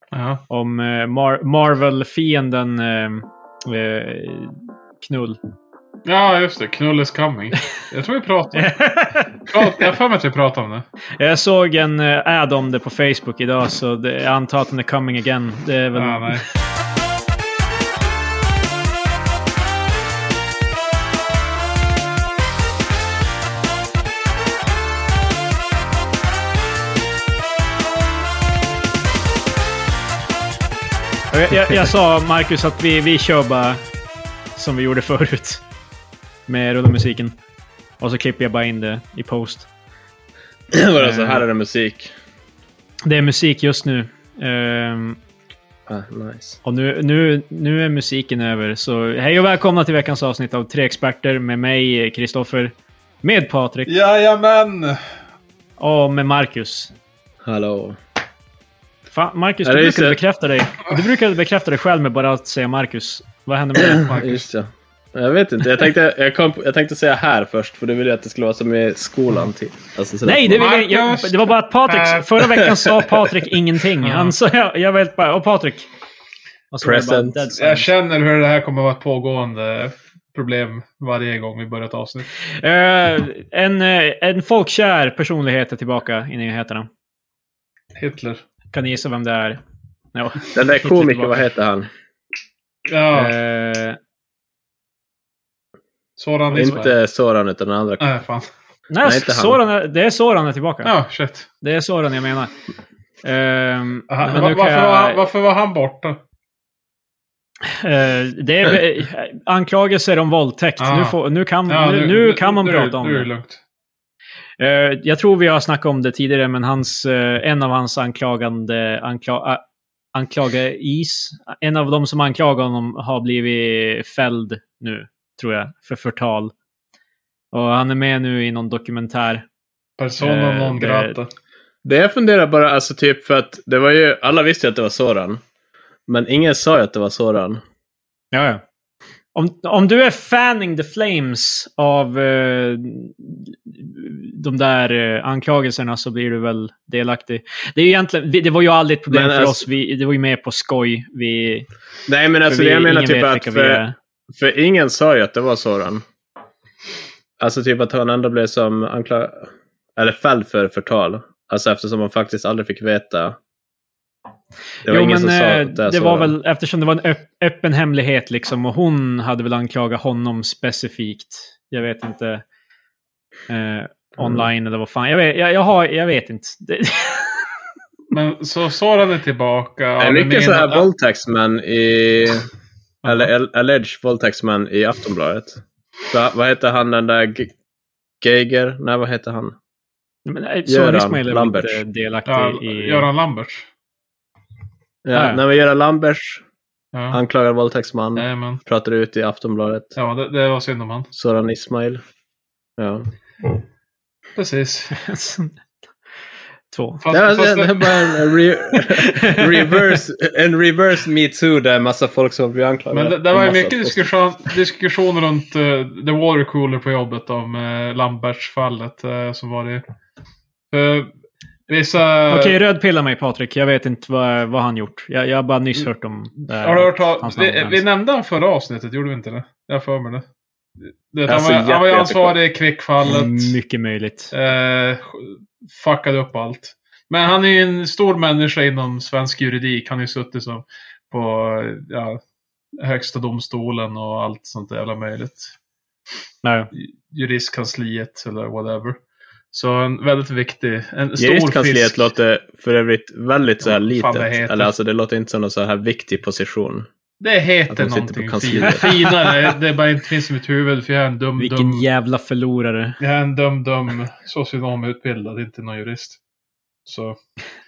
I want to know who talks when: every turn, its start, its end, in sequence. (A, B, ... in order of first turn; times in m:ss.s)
0:00.1-0:00.4 A
0:00.5-0:05.4 B
0:06.1-0:08.7 A
0:08.5-0:09.9 B
0:09.5-0:10.8 A
0:11.2-0:16.4 B
0:16.0-0:16.4 A
0:31.3-0:33.8 B
0:34.6-0:35.6 B
0:36.5-0:37.4 B
0:38.0-0:39.7 B
0:40.7-0:42.1 C
0:41.0-0:41.4 B
0:43.0-0:45.2 B
0:45.9-0:46.6 C
0:46.6-0:53.9 B
0:53.9-0:55.0 A
0:55.8-0:56.9 B
0:57.4-0:58.0 C
0:59.1-1:04.1 B
0:59.6-1:00.2 C
1:04.1-1:04.4 A
1:04.1-1:10.7 C
1:10.2-1:15.9 B
1:10.6-1:12.3 A
1:14.0-1:14.3 A
1:16.7-1:17.9 B
1:16.8-1:17.4 C
1:17.6-1:22.3 A
1:22.6-1:26.9 B
1:28.0-1:28.4 A
1:28.7-1:29.6 B
1:30.1-1:31.4 B
1:30.5-1:31.9 C
1:32.9-1:33.3 A
1:33.1-1:34.0 B
1:36.2-1:36.9 A
1:36.5-1:38.0 C
1:38.0-1:38.5 A
1:38.9-1:40.9 B
1:39.0-1:39.6 C
1:40.8-1:41.5 A
1:41.6-1:42.5 B
1:43.2-1:45.2 B
1:44.1-1:46.2 A
1:47.7-1:53.3 B
1:50.8-1:51.2 A
1:51.7-1:53.6 A
1:54.6-1:59.6 B
2:00.1-2:06.5 B
2:07.5-2:09.4 B
2:10.0-2:11.3 A
2:10.2-2:11.1 B
2:11.8-2:15.4 C
2:16.1-2:17.6 C
2:18.3-2:18.6 B
2:19.3-2:31.7 B
2:29.1-2:29.7 C
2:32.1-2:36.0 C
2:32.4-2:33.9 B
2:37.4-2:43.4 C
2:44.8-2:46.3 C
2:44.8-2:52.4 B
2:53.5-2:57.5 B
2:58.1-3:00.9 A
3:00.0-3:02.4 C
3:03.0-3:03.3 A
3:03.0-3:07.5 C
3:08.2-3:09.5 C
3:10.2-3:13.1 B
3:10.7-3:11.8 C
3:12.2-3:13.7 A
3:15.0-3:16.4 C
3:15.1-3:15.4 B
3:16.9-3:17.2 A
3:17.1-3:19.9 C
3:18.2-3:18.6 A
3:20.0-3:21.1 A
3:21.1-3:22.0 C
3:22.8-3:23.1 C
3:24.4-3:25.0 A
3:24.9-3:25.6 B
3:26.7-3:27.1 B
3:27.0-3:27.9 A
3:27.1-3:34.0 C
3:28.7-3:30.0 B
3:32.9-3:39.8 A
3:40.7-3:41.1 A
3:41.7-3:42.6 A
3:42.3-3:47.8 B
3:46.6-3:50.2 A
3:51.1-3:53.6 A
3:51.3-3:52.3 C
3:53.0-3:54.3 B
3:54.3-4:02.2 A
4:02.8-4:05.5 A
4:06.4-4:06.7 B
4:06.7-4:09.0 A
4:09.5-4:12.1 A
4:11.2-4:16.9 C
4:13.6-4:14.7 A
4:17.2-4:21.8 A
4:17.7-4:18.8 C
4:18.6-4:19.3 B
4:21.4-4:23.0 B
4:23.0-4:26.2 A
4:26.8-4:27.2 A